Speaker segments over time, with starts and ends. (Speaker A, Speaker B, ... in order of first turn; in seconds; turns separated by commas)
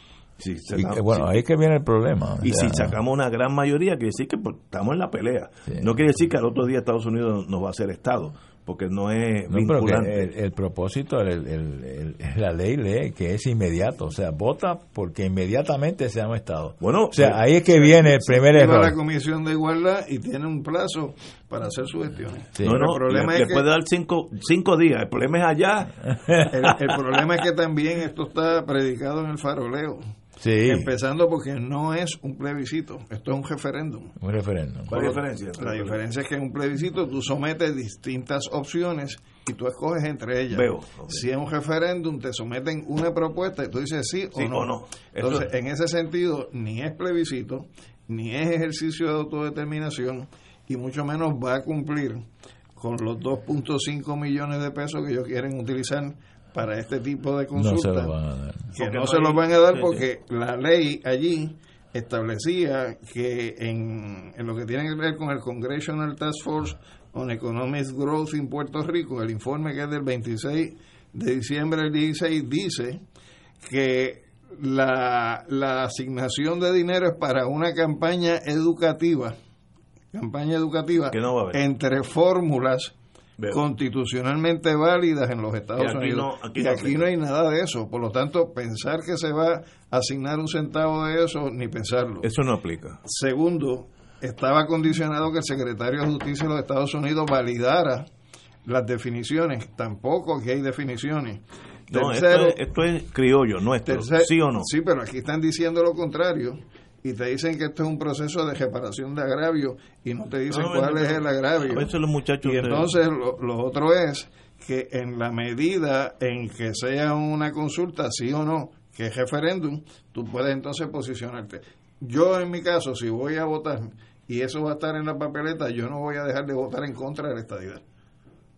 Speaker A: 0.4-1.4, Speaker B: 0.8-3.0, Speaker A: 2.4-10.3, Speaker B: 5.7-5.9, Speaker B: 9.5-19.0, Speaker A: 16.8-17.4, Speaker C: 17.8-23.7, Speaker A: 22.6-26.2, Speaker C: 26.5-30.0, Speaker B: 30.4-30.9, Speaker C: 30.7-34.1, Speaker B: 34.2-35.0, Speaker A: 34.9-36.0, Speaker C: 34.9-52.2, Speaker A: 40.5-41.2, Speaker A: 44.3-45.5, Speaker C: 52.8-58.1, Speaker B: 57.5-58.7, Speaker A: 58.7-60.1, Speaker C: 58.7-73.0, Speaker C: 73.6-79.4, Speaker C: 80.1-82.9, Speaker A: 81.1-81.6, Speaker C: 83.5-92.3, Speaker A: 85.8-87.1, Speaker A: 92.2-93.0, Speaker C: 93.0-98.1, Speaker C: 98.7-102.6, Speaker A: 101.9-104.7, Speaker C: 103.9-111.9, Speaker A: 110.5-112.9, Speaker C: 112.4-127.8